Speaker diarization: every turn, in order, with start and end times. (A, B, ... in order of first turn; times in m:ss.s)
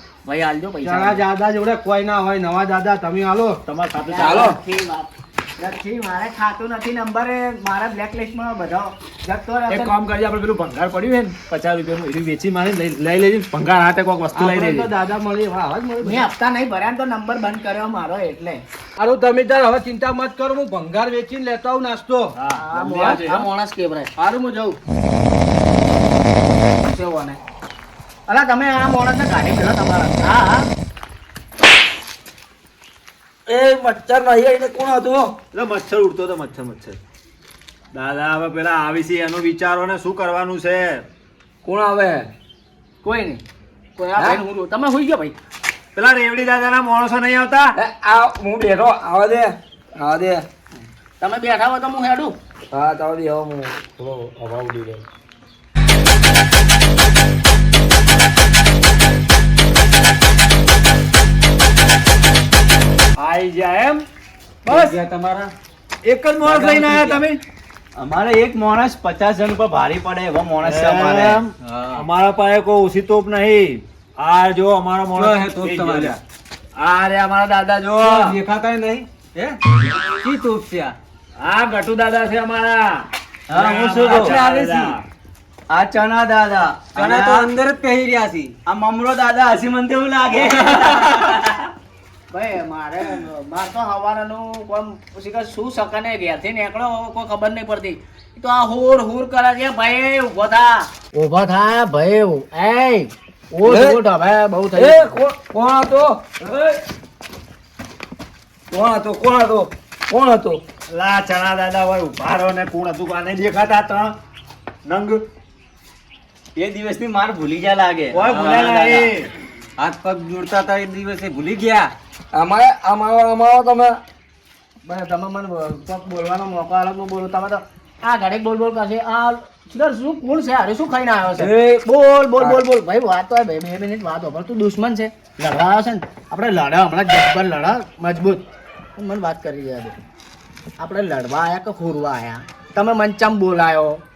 0:00.2-0:01.2 A
0:00.8-0:03.5 B
0:03.6-0:04.4 C
0:04.0-0:09.9 A
0:04.2-0:04.5 D
0:09.7-0:14.9 C
0:14.4-0:16.2 B
0:16.0-0:18.6 A
0:19.0-0:22.2 B
0:22.4-0:23.4 C
0:22.6-0:24.1 A
0:24.2-0:24.8 B
0:26.8-0:27.4 A
0:28.3-0:30.7 A
0:33.5-0:35.3 D
0:35.5-0:37.0 C
0:37.9-0:41.0 C
0:41.6-0:42.3 D
0:43.0-0:43.4 A
0:44.0-0:45.3 A
0:45.9-0:47.7 C
0:47.8-0:50.4 D
0:51.2-0:52.4 A
0:52.7-0:55.0 D
1:03.2-1:04.0 C
1:04.6-1:05.0 C
1:04.6-1:05.5 E
1:06.0-1:07.4 C
1:06.4-1:07.2 F
1:08.0-1:11.8 F
1:10.6-1:16.2 C
1:15.2-1:16.2 E
1:16.8-1:18.4 C
1:18.0-1:19.6 E
1:20.2-1:20.9 E
1:21.4-1:25.0 C
1:23.5-1:24.4 F
1:24.0-1:24.9 E
1:25.7-1:27.5 F
1:26.9-1:28.5 E
1:28.6-1:31.7 F
1:32.3-1:45.1 A
1:44.8-1:46.1 D
1:48.7-1:50.6 D
1:50.9-1:54.1 C
1:54.8-1:55.2 C
1:56.6-1:58.2 F
1:58.1-1:59.3 C
1:58.3-1:58.7 E
1:59.8-2:01.9 E
2:02.3-2:04.0 D
2:04.8-2:18.4 A
2:11.5-2:11.8 D
2:19.0-2:20.0 A
2:20.8-2:24.0 A